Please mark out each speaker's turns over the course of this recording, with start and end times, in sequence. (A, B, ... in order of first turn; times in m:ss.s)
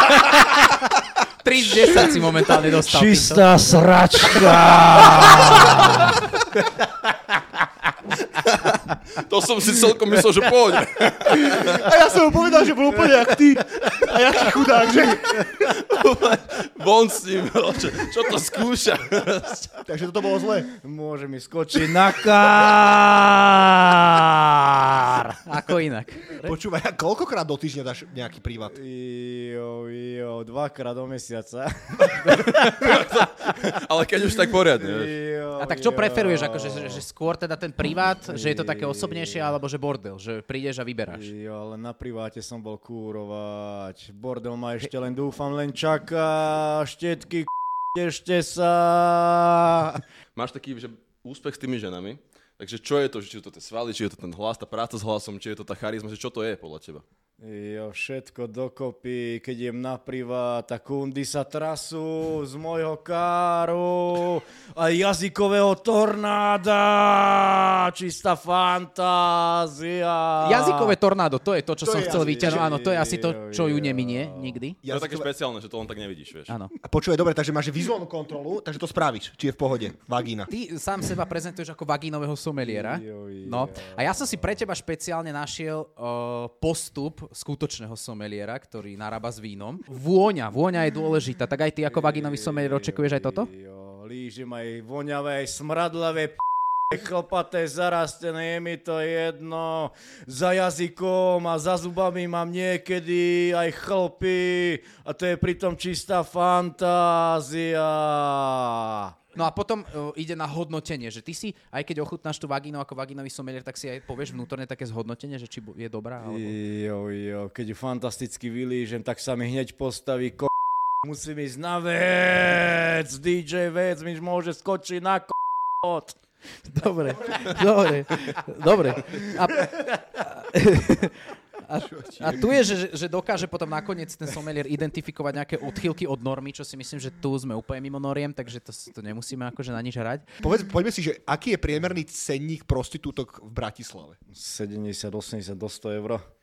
0:01.4-0:03.5 A
0:02.1-0:06.9 B
0:05.2-0:06.0 C
0:08.3-0:11.8 C
0:11.3-0:15.4 D
0:15.0-0:19.7 C
0:19.9-0:20.7 D
0:20.7-0:25.3 B
0:25.4-0:26.5 A
0:26.4-0:28.8 D
0:28.7-0:33.7 B
0:32.0-0:35.1 C
0:34.3-0:37.0 B
0:35.6-0:41.3 A
0:38.3-0:39.6 B
0:41.1-0:50.0 B
0:50.3-0:57.0 C
0:57.4-1:11.0 B
1:10.4-1:14.8 A
1:11.8-1:12.7 D
1:12.0-1:14.6 B
1:14.8-1:15.3 D
1:14.9-1:16.5 C
1:16.5-1:16.7 A
1:16.8-1:20.5 D
1:20.5-1:33.5 A
1:22.6-1:24.4 B
1:31.8-1:49.2 B
1:49.3-1:56.6 A
1:56.2-2:00.5 B
2:01.0-2:06.2 B
2:06.6-2:20.2 A
2:11.8-2:12.5 D
2:20.4-2:24.2 D
2:24.3-2:26.2 B